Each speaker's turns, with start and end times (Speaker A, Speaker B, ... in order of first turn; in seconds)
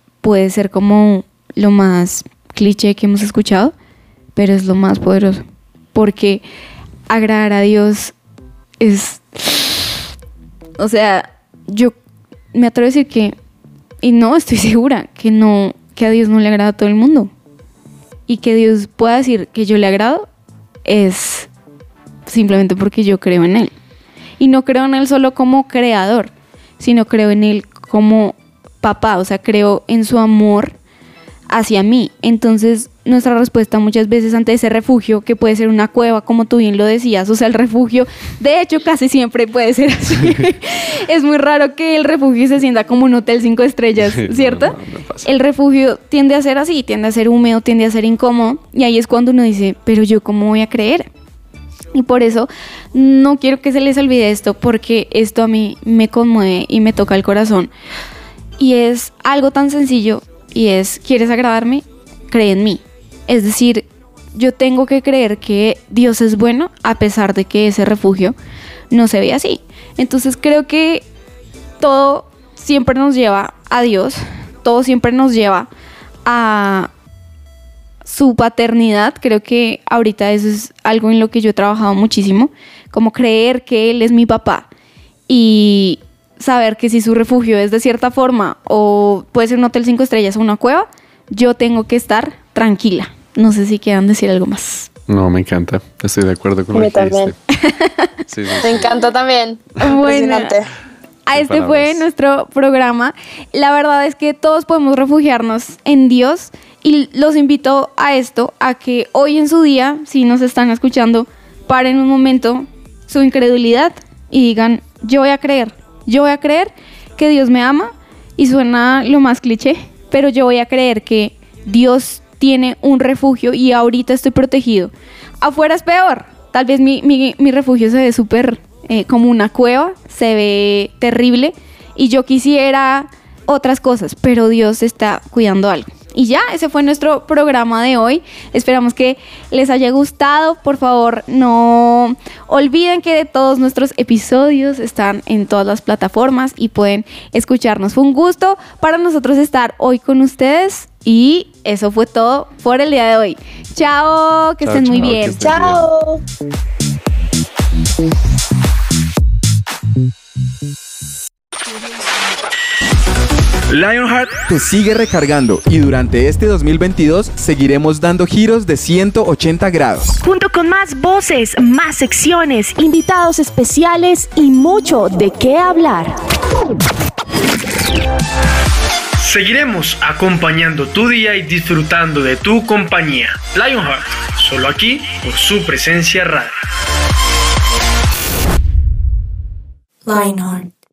Speaker A: 0.2-3.7, 4.4-5.4, 6.0-6.4, 7.1-8.1, 8.8-10.0, 10.8-11.9, 12.5-13.3, 14.0-17.3, 18.3-20.3, 20.9-21.5, 22.3-23.7, 24.4-30.7, 31.5-51.1, 51.9-57.7, 58.6-68.3, 68.9-71.0, 71.8-75.7, 76.3-76.9, 78.0-84.7, 85.3-94.9, 97.5-98.1, 99.8-100.6, 101.3-155.4
Speaker B: 44.0-45.3, 95.1-97.4, 98.3-98.9, 101.3-102.0, 154.6-155.9
Speaker C: 96.7-97.3, 98.6-100.7, 155.4-156.2, 190.1-190.7
Speaker D: 163.7-164.4, 179.2-186.5
Speaker E: 164.4-170.2
Speaker F: 170.2-176.2